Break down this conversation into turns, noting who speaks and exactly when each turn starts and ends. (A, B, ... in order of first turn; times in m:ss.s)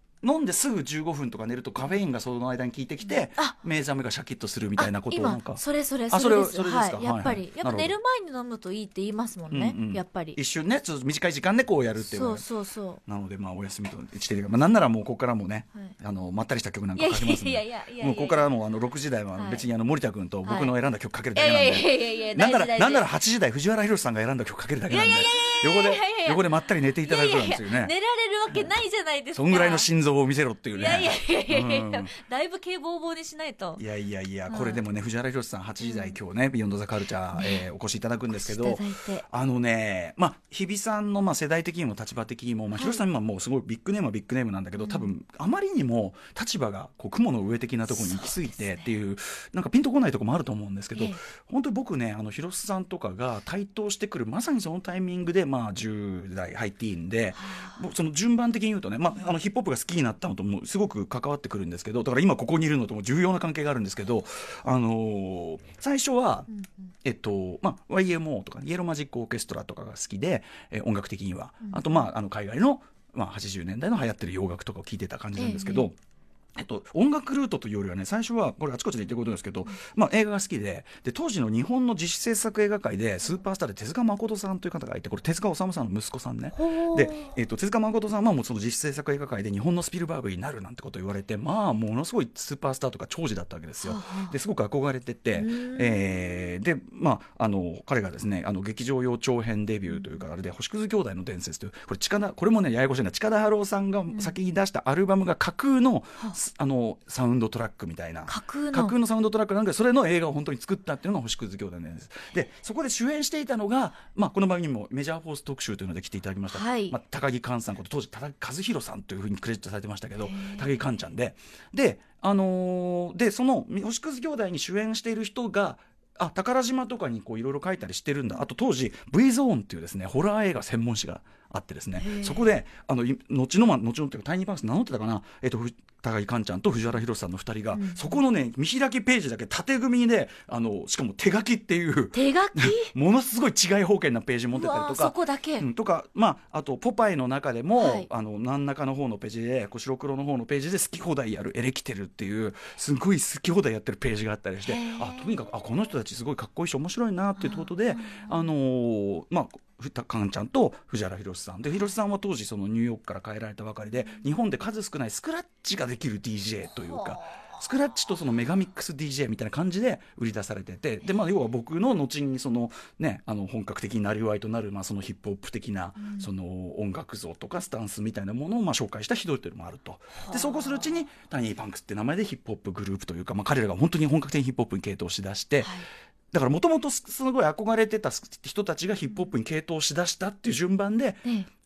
0:00.2-0:07.9 A
0:03.0-0:03.6 B
0:04.8-0:10.4 B
0:09.5-0:12.4 A
0:12.0-0:13.0 B
0:13.0-0:27.9 A
0:17.0-0:18.5 B
0:19.3-0:19.6 B
0:20.4-0:20.8 B
0:21.3-0:23.1 B
0:24.9-0:26.4 B
0:27.0-0:29.9 B
0:29.3-0:32.1 A
0:30.7-0:33.8 B
0:33.8-1:06.5 A
0:34.5-0:34.8 B
0:35.8-0:36.2 B
0:37.3-0:37.6 B
0:38.3-0:39.2 B
0:42.7-0:43.0 B
0:44.8-0:45.1 B
0:47.9-0:48.9 B
0:50.9-0:51.2 B
0:57.4-0:57.8 B
1:07.0-1:16.0 A
1:11.7-1:12.1 B
1:15.4-1:15.9 B
1:16.6-3:05.7 A
1:26.5-1:27.4 B
1:33.8-1:34.4 B
1:35.3-1:36.5 B
1:39.9-1:40.2 B
1:48.2-1:48.9 B
1:56.5-1:57.0 B
2:00.2-2:00.8 B
2:12.0-2:12.5 B
2:17.7-2:18.2 B
2:22.1-2:22.9 B
2:24.5-2:25.6 B
2:27.8-2:28.1 B
2:34.6-2:35.4 B
2:37.4-2:38.5 B
2:56.0-2:56.3 B
3:00.2-3:00.8 B
3:05.6-3:05.9 B
3:06.3-3:11.2 A